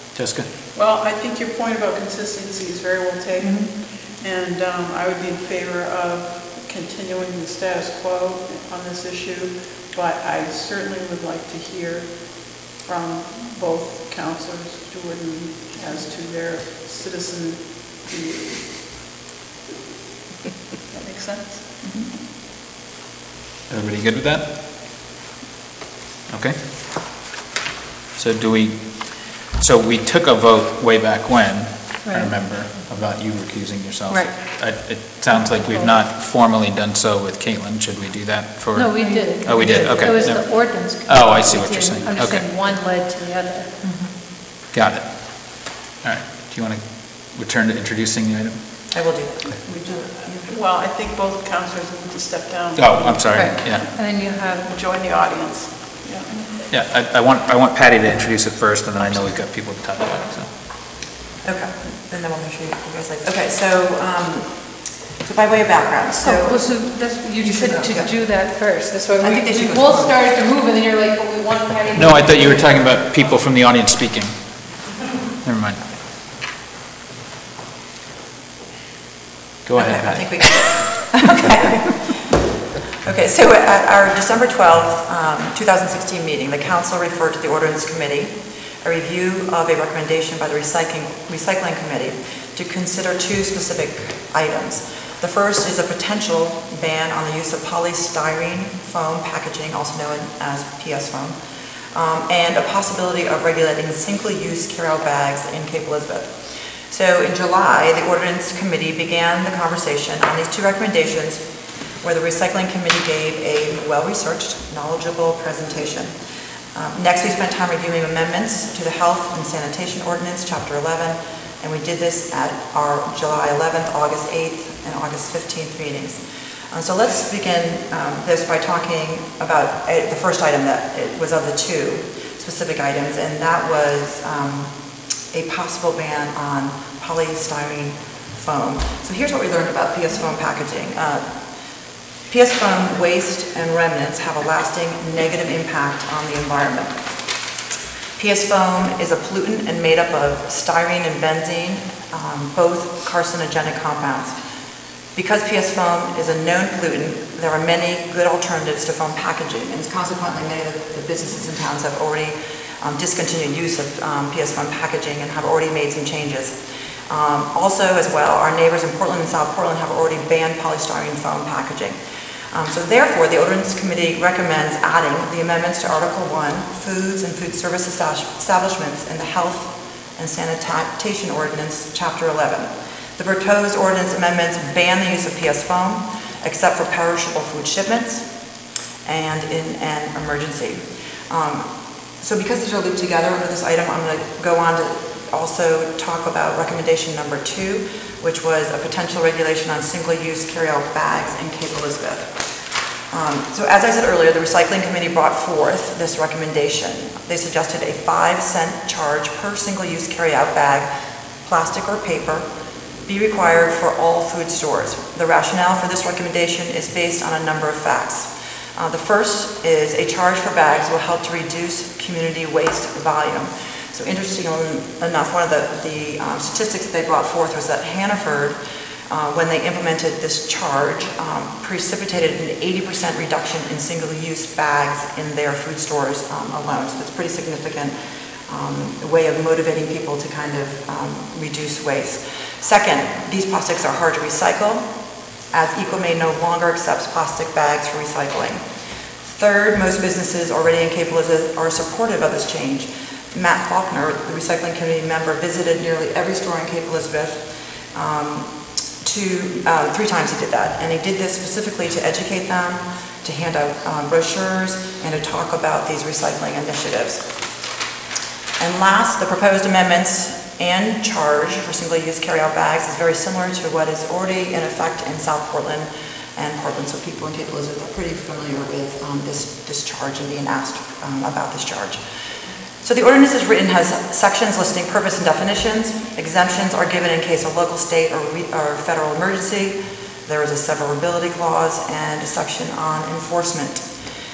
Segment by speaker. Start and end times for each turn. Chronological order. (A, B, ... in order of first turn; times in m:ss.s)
0:00.1-0:00.5 A
0:00.7-0:18.9 B
0:20.9-0:22.2 B
0:21.8-0:22.1 C
0:23.7-0:24.6 A
0:26.3-0:27.2 A
0:28.1-0:42.5 A
0:32.0-0:32.4 D
0:35.3-0:36.0 D
0:38.7-0:43.9 D
0:39.0-0:40.4 C
0:43.8-0:44.3 C
0:44.7-0:48.8 A
0:48.9-0:50.5 C
0:49.5-0:56.7 B
0:52.8-0:53.9 A
0:53.2-0:54.7 D
0:56.7-1:00.6 A
1:01.4-1:10.3 C
1:06.2-1:13.0 D
1:11.9-1:14.8 A
1:15.4-1:15.9 A
1:19.6-1:21.5 A
1:19.7-1:22.2 C
1:23.0-1:41.4 C
1:41.9-1:51.5 C
1:52.0-1:56.1 C
1:56.7-2:21.5 C
2:22.3-2:27.1 C
2:28.2-2:34.4 C
2:35.1-2:46.6 C
2:47.1-2:52.0 C
2:52.5-3:22.5 C
3:23.1-3:32.5 C
3:33.0-3:48.6 C
3:49.1-3:58.0 C
3:58.5-4:08.7 C
4:09.2-4:27.4 C
4:28.6-4:42.0 C
4:42.8-4:53.9 C